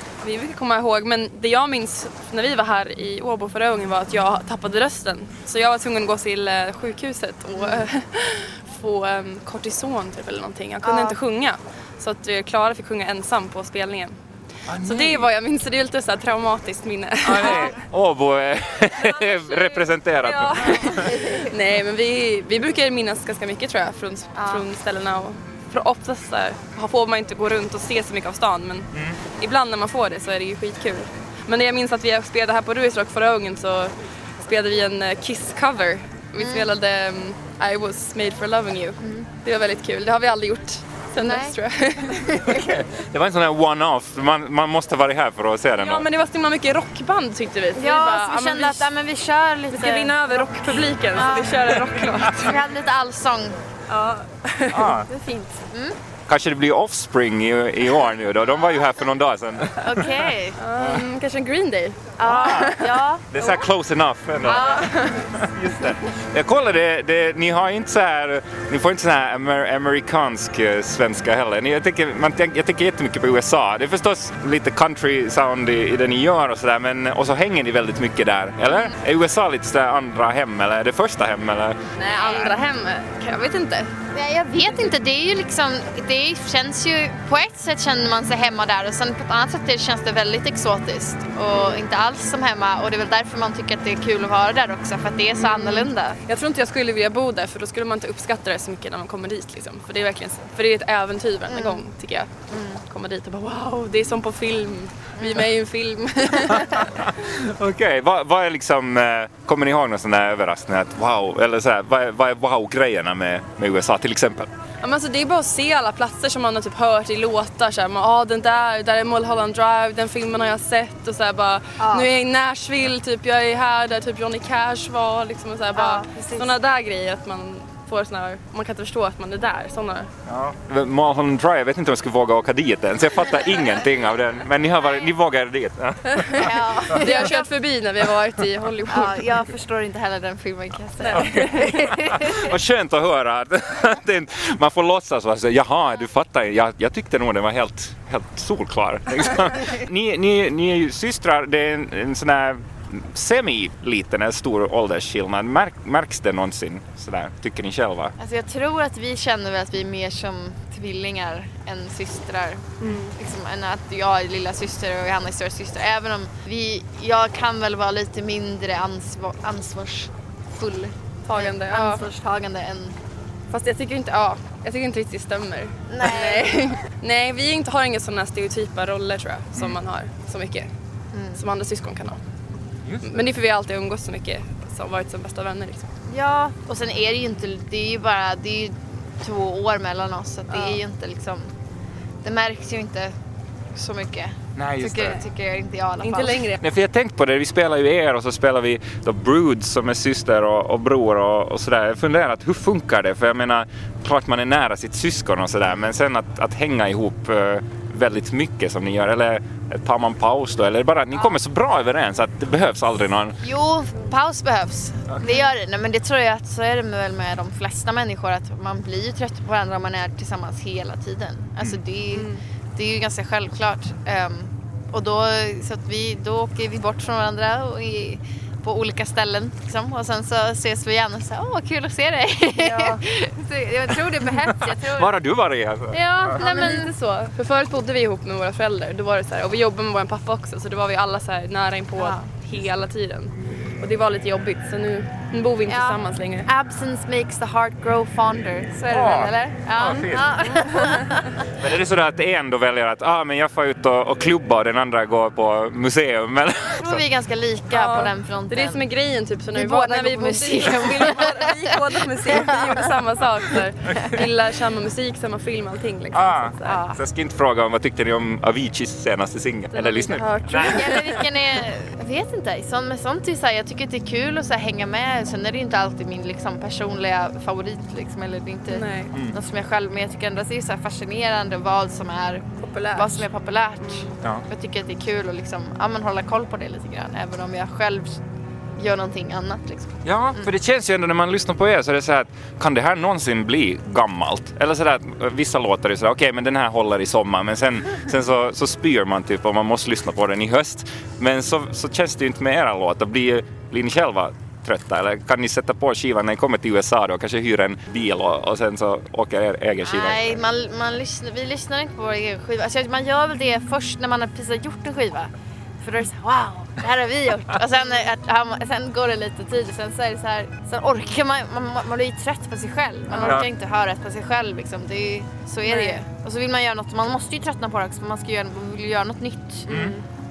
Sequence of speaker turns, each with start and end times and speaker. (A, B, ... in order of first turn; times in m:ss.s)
0:00.2-0:14.2 A
0:07.5-0:07.9 B
0:10.8-0:11.2 B
0:14.7-0:15.3 C
0:14.7-0:17.8 A
0:17.2-0:21.1 C
0:19.1-0:42.6 A
0:21.0-0:21.5 B
0:24.3-0:24.6 B
0:36.4-0:36.7 B
0:39.0-0:39.3 B
0:41.2-0:41.6 B
0:42.4-0:46.0 C
0:45.8-0:48.9 A
0:47.7-0:50.2 B
0:49.7-0:52.6 A
0:51.1-0:53.6 B
0:53.9-0:55.7 A
0:54.7-0:55.1 C
0:55.7-0:56.0 B
0:56.3-1:00.1 C
0:59.8-1:00.6 B
1:00.6-1:03.6 A
1:02.2-1:03.2 B
1:02.2-1:02.7 C
1:03.3-1:22.5 C
1:04.4-1:04.9 B
1:04.5-1:05.4 A
1:22.0-1:23.9 A
1:24.1-1:36.2 B
1:35.4-1:47.0 A
1:41.5-1:41.9 B
1:42.5-1:42.8 B
1:45.2-1:45.5 B
1:47.0-1:54.5 C
1:54.8-2:10.1 A
2:01.8-2:02.1 B
2:05.7-2:06.5 B
2:10.3-2:16.5 C
2:16.1-2:19.2 A
2:16.3-2:17.5 B
2:18.9-2:22.5 B
2:21.0-2:21.7 A
2:21.9-2:38.1 C
2:38.2-2:53.0 B
2:42.8-2:43.1 A
2:51.2-2:52.0 A
2:53.5-3:00.7 A
2:55.9-2:56.6 B
3:01.1-3:01.4 B
3:01.4-3:02.2 A
3:02.8-3:03.1 C
3:03.0-3:05.9 A
3:06.1-3:11.5 B
3:10.5-3:10.8 A
3:12.2-3:13.1 B
3:13.7-3:16.4 B
3:14.6-3:15.2 C
3:16.0-3:16.6 A
3:16.6-3:33.4 C
3:33.4-3:55.1 B
3:42.1-3:42.4 A
3:52.6-3:53.0 A
3:54.6-3:56.0 C
3:55.9-4:06.5 A
3:56.4-3:56.9 B
4:02.0-4:02.3 B
4:05.7-4:11.4 B
4:08.9-4:10.4 C
4:09.8-4:10.9 A
4:11.5-4:17.0 C
4:16.8-4:18.8 B
4:17.7-4:26.8 A
4:19.5-4:22.9 B
4:23.5-4:24.1 B
4:26.1-4:31.0 C
4:26.6-4:27.0 B
4:29.7-4:31.2 A
4:30.6-4:48.2 B
4:38.7-4:39.2 A
4:42.6-4:43.3 A
4:43.8-4:44.1 A
4:44.2-4:44.4 C
4:48.8-4:50.5 B
4:50.0-5:10.4 C
5:09.8-5:29.9 B
5:23.1-5:23.4 A
5:25.6-5:26.0 A
5:29.7-5:29.9 C
5:29.7-5:30.0 A